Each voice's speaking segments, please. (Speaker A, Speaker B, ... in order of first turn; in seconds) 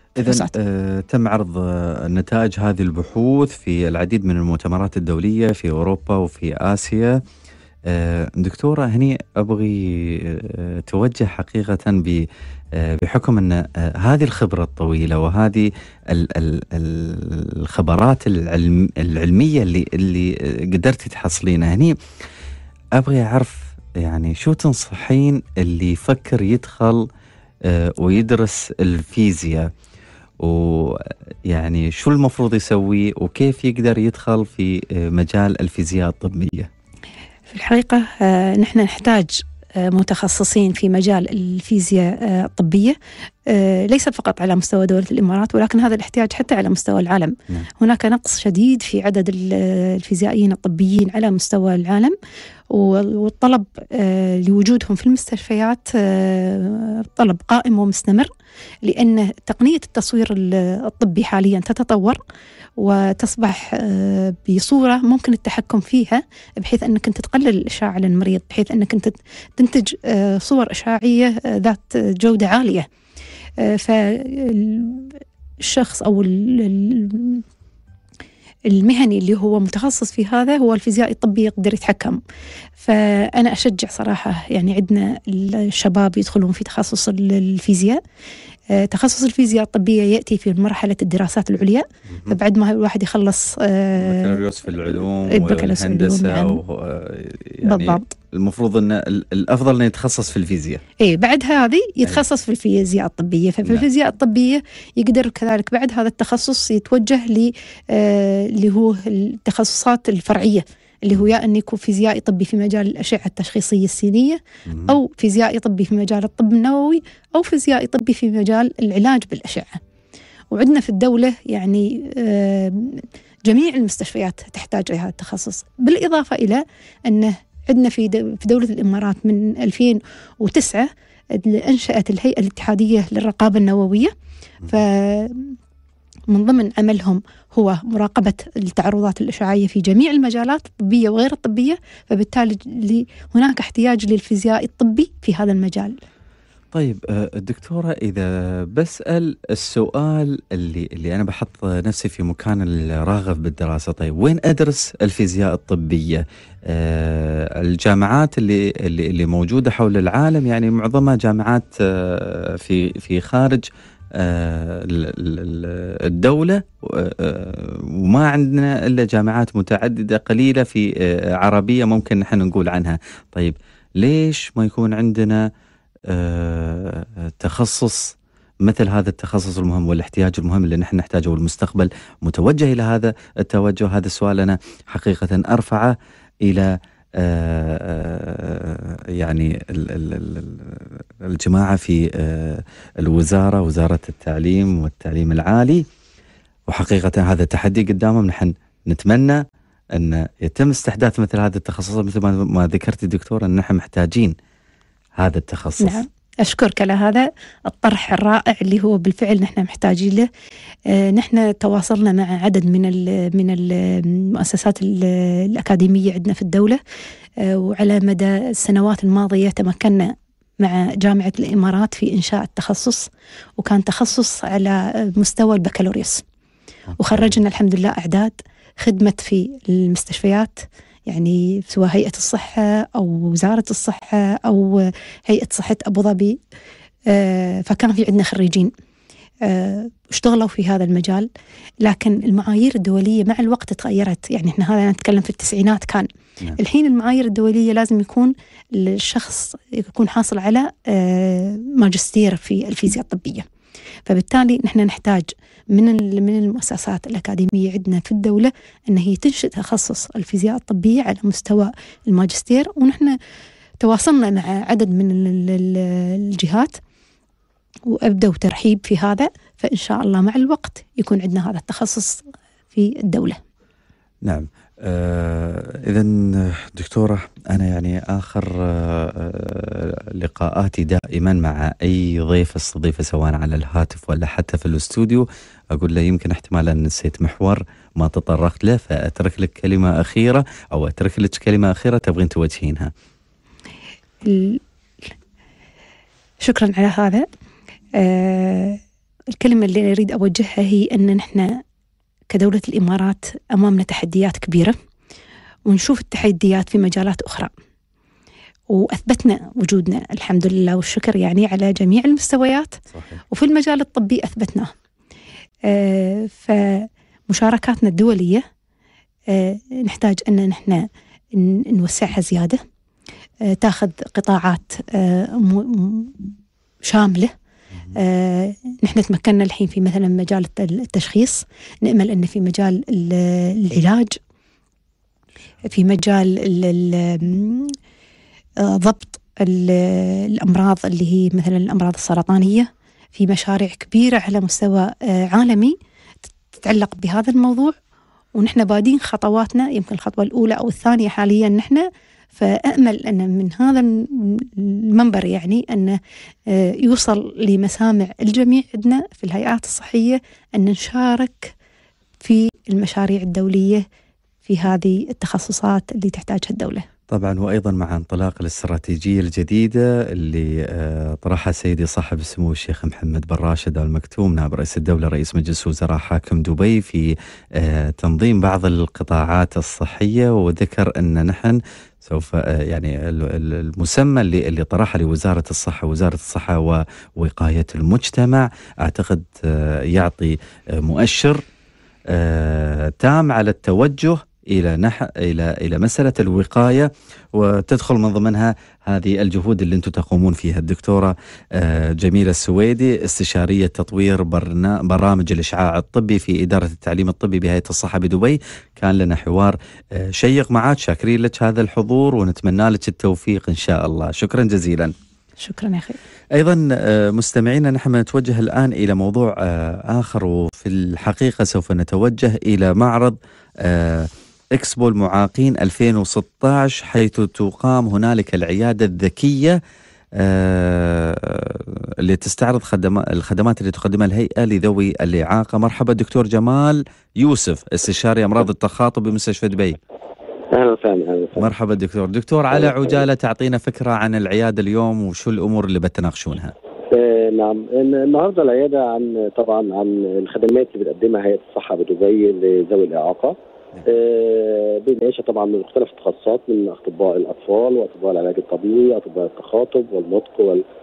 Speaker A: 0.1-7.2, 7.9-21.9, 22.9-27.1, 27.6-29.7, 30.4-36.7, 92.1-92.4, 94.0-100.8, 114.7-115.0, 146.7-163.6, 164.2-175.5, 176.1-195.8, 196.7-199.4, 199.9-204.3, 205.2-206.0, 226.9-227.4, 274.2-292.9, 312.9-313.2, 367.1-391.4, 392.1-414.9, 416.3-429.6, 430.2-439.8, 441.4-446.5
Speaker B: 0.2-0.5, 37.5-43.0, 43.5-52.1, 52.7-58.3, 58.8-62.2, 62.8-72.9, 73.6-77.4, 78.7-82.2, 82.8-88.0, 88.7-94.4, 94.9-96.6, 97.6-98.1, 101.0-119.8, 120.5-134.1, 134.7-135.6, 136.3-146.0, 205.8-210.3, 210.9-216.8, 217.4-223.0, 223.6-226.2, 227.0-236.4, 237.1-238.7, 239.4-241.3, 241.8-253.4, 254.1-263.1, 263.8-266.8, 267.9-273.4, 294.2-294.6, 296.4-297.2, 298.0-298.8, 299.3-301.6, 302.3-304.8, 305.6-307.5, 308.7-312.8, 313.3-314.7, 315.7-318.4, 319.3-322.6, 323.4-326.2, 326.8-327.3, 327.9-334.2, 335.6-337.7, 338.6-345.8, 346.5-347.8, 348.4-361.5, 362.2-363.8, 364.4-366.9, 415.4-416.0
Speaker C: 440.5-441.5, 446.9-453.3, 453.9-460.6